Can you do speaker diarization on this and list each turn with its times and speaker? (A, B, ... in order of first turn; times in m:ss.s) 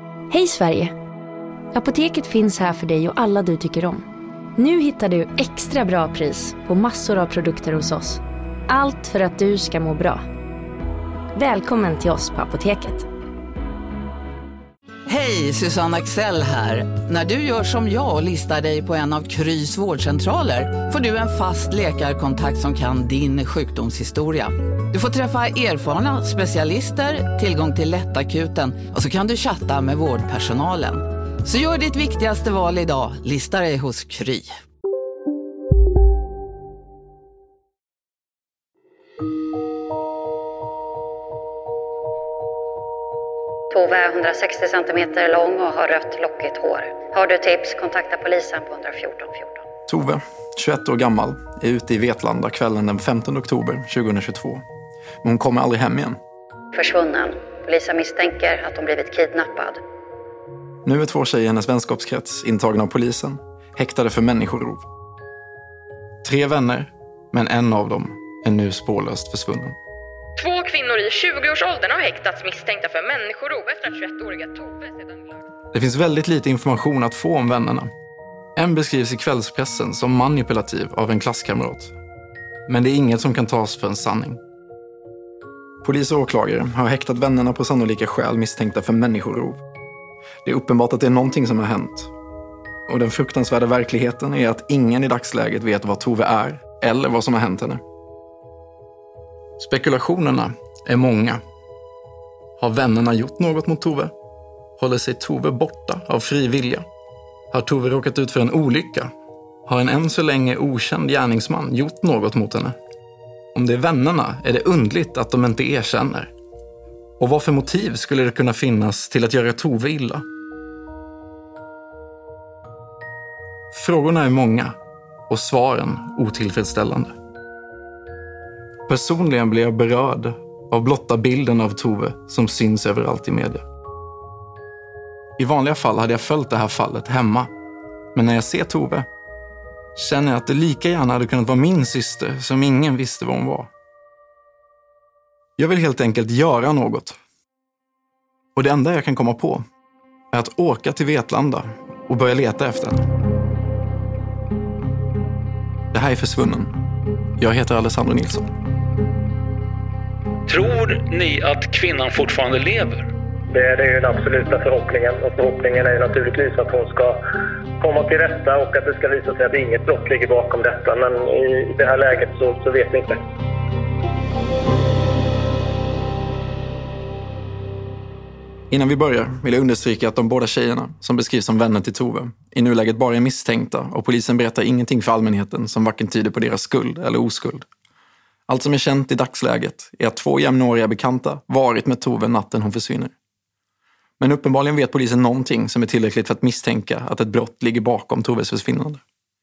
0:00.3-0:00.9 A
0:01.7-0:04.0 A
0:04.6-0:10.2 A
0:11.3-0:13.1 A
0:15.1-0:34.6 B
0:43.7-0:49.6 C
0:49.9-0:54.6 D
0:55.2-0:56.2 D
0:56.7-0:59.8 C
1:00.8-1:04.9 D
1:06.2-1:09.8 D
1:10.4-1:15.4 E
1:15.7-1:17.9 D
1:18.6-1:21.9 D
1:22.7-1:24.4 D
1:25.8-1:29.6 D
1:30.4-1:32.1 D
1:32.9-1:37.8 D
1:39.6-1:41.4 D
1:42.6-1:44.1 D
1:44.8-1:46.8 D
1:47.5-1:49.1 D
1:49.7-1:52.8 D
1:53.6-1:56.3 D
1:57.2-2:00.2 D
2:03.7-2:04.8 D
2:05.3-2:07.2 D
2:08.9-2:13.6 D
2:15.4-2:17.5 D
2:18.2-2:19.1 D
2:20.0-2:23.7 D
2:25.6-2:27.2 D
2:28.6-2:29.6 D
2:30.3-2:33.0 D
2:35.9-2:36.8 D
2:37.4-2:38.5 D
2:40.5-2:43.1 F
2:43.5-2:47.2 G
2:47.8-2:53.2 G
2:58.7-3:07.7 D
3:08.5-3:13.1 D
3:14.2-3:19.0 D